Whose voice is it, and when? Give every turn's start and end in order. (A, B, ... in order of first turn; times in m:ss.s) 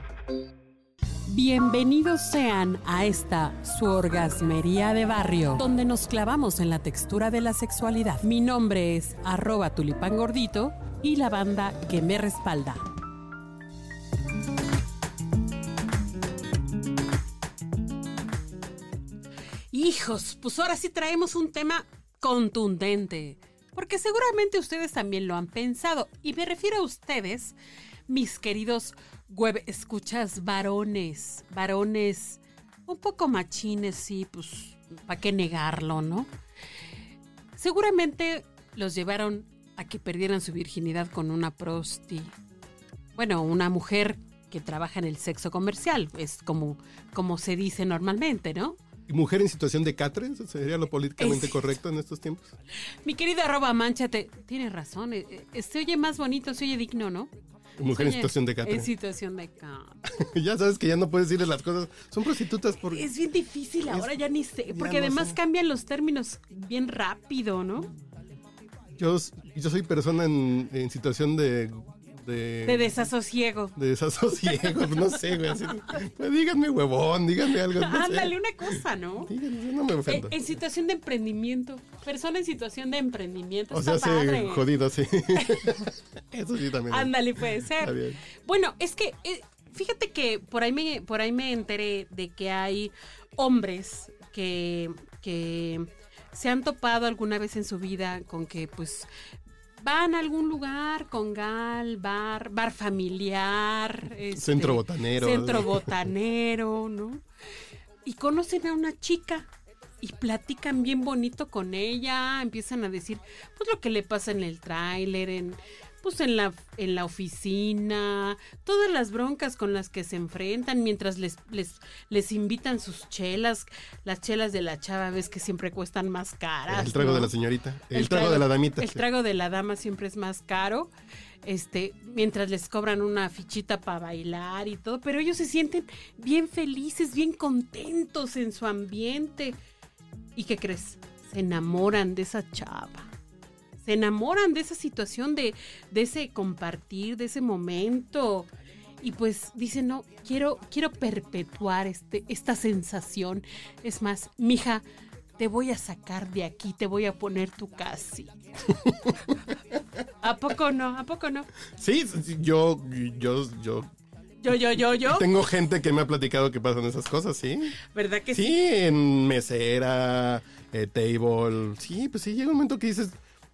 0:01.3-0:12.9 A
0:19.7-0:27.6 A
0:28.1-0:36.3 A
0:37.6-0:42.3 A
0:43.2-0:48.8 A
0:49.1-0:52.5 B
0:51.2-0:51.7 A
0:53.0-0:57.3 A
0:57.8-0:58.9 B
0:57.9-1:00.0 A
1:00.2-1:03.1 B
1:02.9-1:07.9 A
1:03.8-1:04.1 B
1:04.7-1:05.4 B
1:09.0-1:13.1 B
1:12.6-1:13.8 A
1:13.8-1:20.4 B
1:14.3-1:15.9 A
1:17.6-1:19.3 A
1:20.0-1:24.7 A
1:23.7-1:28.2 B
1:25.3-1:25.7 A
1:26.9-1:39.1 A
1:39.8-1:47.2 A
1:44.3-1:46.0 B
1:48.0-1:49.5 A
1:50.0-2:07.3 A
2:06.7-2:09.0 B
2:07.9-2:10.9 A
2:11.4-2:19.6 A
2:20.4-2:23.1 A
2:23.8-2:28.5 A
2:29.0-2:34.8 A
2:35.4-2:38.4 A
2:38.9-2:39.2 B
2:40.2-2:41.5 A
2:41.8-2:43.9 B
2:44.4-2:45.3 A
2:44.9-2:47.8 B
2:47.8-2:48.5 A
2:48.3-2:53.2 B